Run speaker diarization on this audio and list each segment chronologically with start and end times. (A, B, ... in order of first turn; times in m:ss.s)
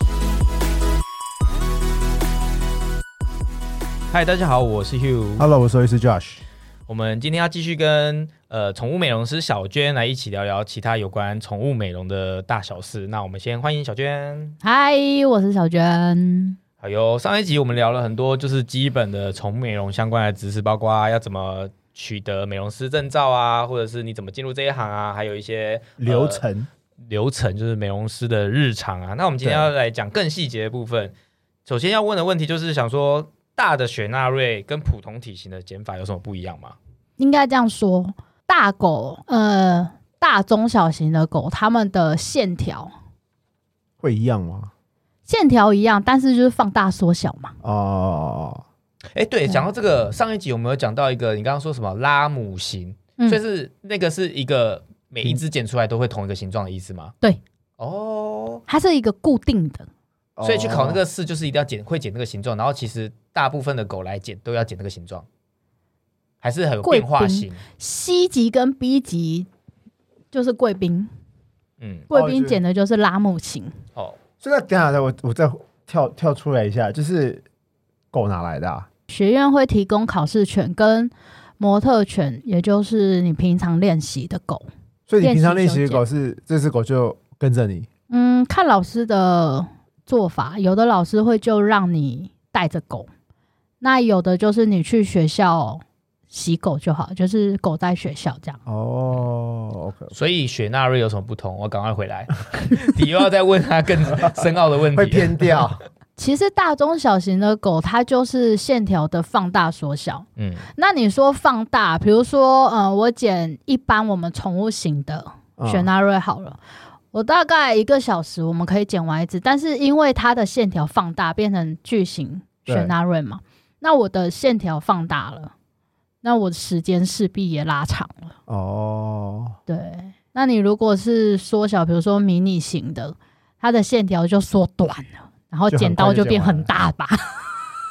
0:04.1-0:05.5 A
0:05.4-0:06.4 B
0:06.9-0:14.6 A
0:14.6-0:16.6 C
0:16.8-0:26.4 A
0:26.0-0:26.7 B
0:27.1-0:31.1 A
0:29.4-0:29.7 B
0:31.6-0:36.8 A
0:37.2-0:42.9 C
0:44.0-0:44.7 B
0:45.3-0:47.5 C
0:47.6-0:48.6 B
0:49.1-0:57.1 A
0:57.8-0:58.6 A
0:58.7-0:59.9 C
1:00.4-1:01.0 B
1:00.4-1:05.2 A
1:06.4-1:07.6 A
1:06.8-1:09.5 C
1:10.3-1:11.1 C
1:11.8-1:12.1 A
1:12.1-1:13.7 C
1:12.1-1:12.6 B
1:14.4-1:17.4 B
1:18.1-1:18.9 B
1:19.1-1:24.7 C
1:25.1-1:27.9 B
1:25.2-1:26.0 C
1:28.1-1:33.1 C
1:33.8-1:38.6 C
1:38.6-1:40.1 B
1:40.1-1:45.7 A
1:44.9-1:45.8 B
1:46.2-1:56.6 C
1:50.4-1:50.7 A
1:55.6-1:55.9 B
1:57.1-2:05.5 C
2:02.6-2:02.9 B
2:06.2-2:08.3 C
2:08.5-2:09.5 B
2:09.7-2:17.5 C
2:15.7-2:16.7 B